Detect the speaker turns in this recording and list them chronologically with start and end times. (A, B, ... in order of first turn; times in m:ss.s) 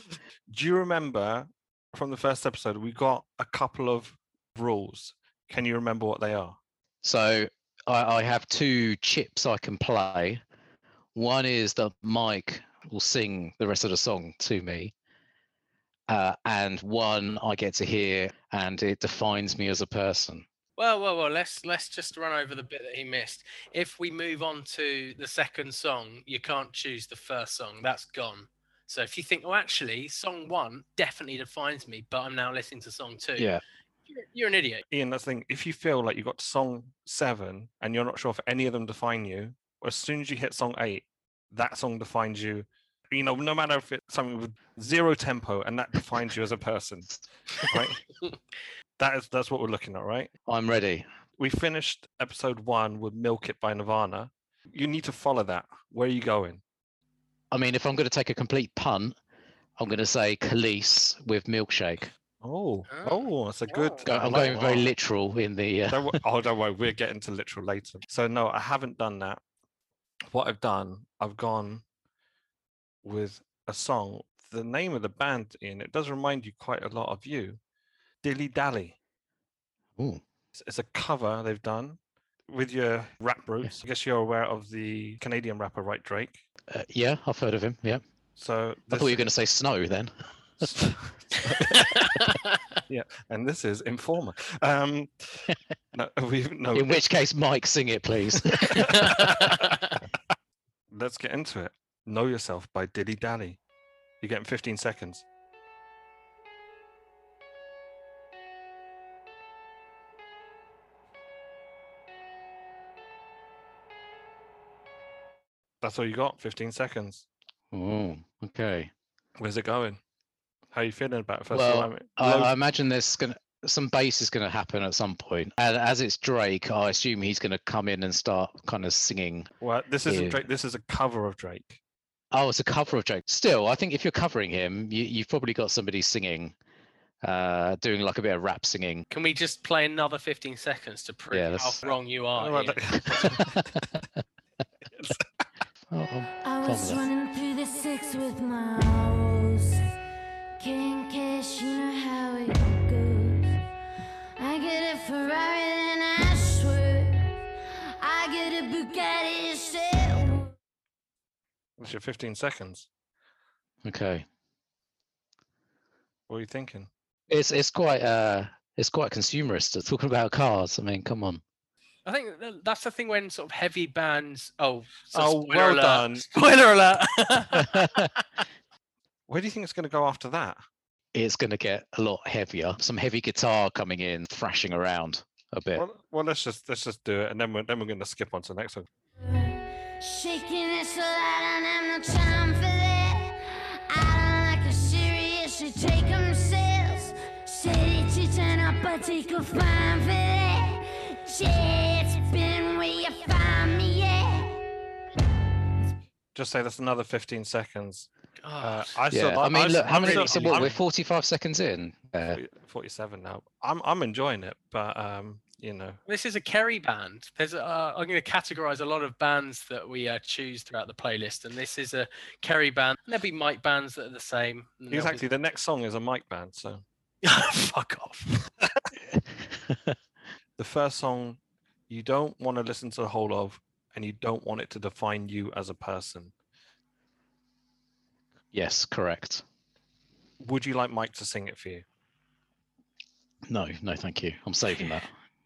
0:00.5-0:06.6 A
0:07.0-0:10.4 B
0:11.2-0:14.9 B
0:16.1-0:20.5 B
0:20.8-0:33.5 C
0:34.1-0:34.8 C
0:34.9-0:48.0 A
0:49.0-0:50.3 A
0:50.5-0:51.1 B
0:51.4-0:56.6 A
0:57.5-0:59.2 B
0:59.8-1:02.1 B
1:02.4-1:04.9 A
1:02.9-1:04.0 C
1:04.0-1:06.2 B
1:05.9-1:09.4 A
1:10.3-1:11.8 A
1:13.0-1:17.6 A
1:18.2-1:19.0 A
1:20.0-1:20.2 B
1:20.5-1:26.4 A
1:26.7-1:28.0 B
1:28.4-1:29.2 A
1:28.9-1:30.1 B
1:30.6-1:31.9 A
1:31.7-1:32.8 C
1:32.9-1:36.9 A
1:36.7-1:38.9 B
1:38.6-1:40.0 C
1:38.8-1:39.4 A
1:40.9-1:43.6 A
1:44.2-1:45.2 A
1:55.8-1:57.3 A
1:57.7-1:58.9 B
1:59.4-2:00.0 A
2:00.7-2:02.5 A
2:01.5-2:09.5 B
2:09.6-2:11.8 A
2:10.1-2:10.4 B
2:12.3-2:16.6 B
2:17.2-2:19.1 B
2:19.1-2:23.3 C
2:21.3-2:21.8 B
2:22.4-2:23.7 A
2:23.1-2:24.2 B
2:25.0-2:25.2 A
2:25.9-2:27.1 B
2:26.4-2:29.8 D
2:30.6-2:33.6 D
2:34.4-2:37.3 D
2:38.0-2:40.5 D
2:41.8-2:42.9 A
2:43.8-2:44.2 B
2:46.3-2:46.9 A
2:47.3-2:51.4 B
2:52.0-2:58.2 C
2:55.1-2:56.2 A
2:57.6-2:58.1 B
2:59.3-3:00.6 A
3:01.2-3:05.8 B
3:05.8-3:08.9 A
3:09.2-3:24.6 D
3:26.4-3:30.8 A
3:28.4-3:29.0 C
3:29.1-3:32.4 B
3:29.9-3:30.7 C
3:32.3-3:36.0 A
3:36.1-3:45.2 C
3:44.9-3:46.8 A
3:47.2-3:48.3 C
3:49.1-3:50.0 B
3:50.6-3:56.3 A
3:58.5-3:59.4 B
4:00.4-4:01.8 A
4:03.5-4:05.1 B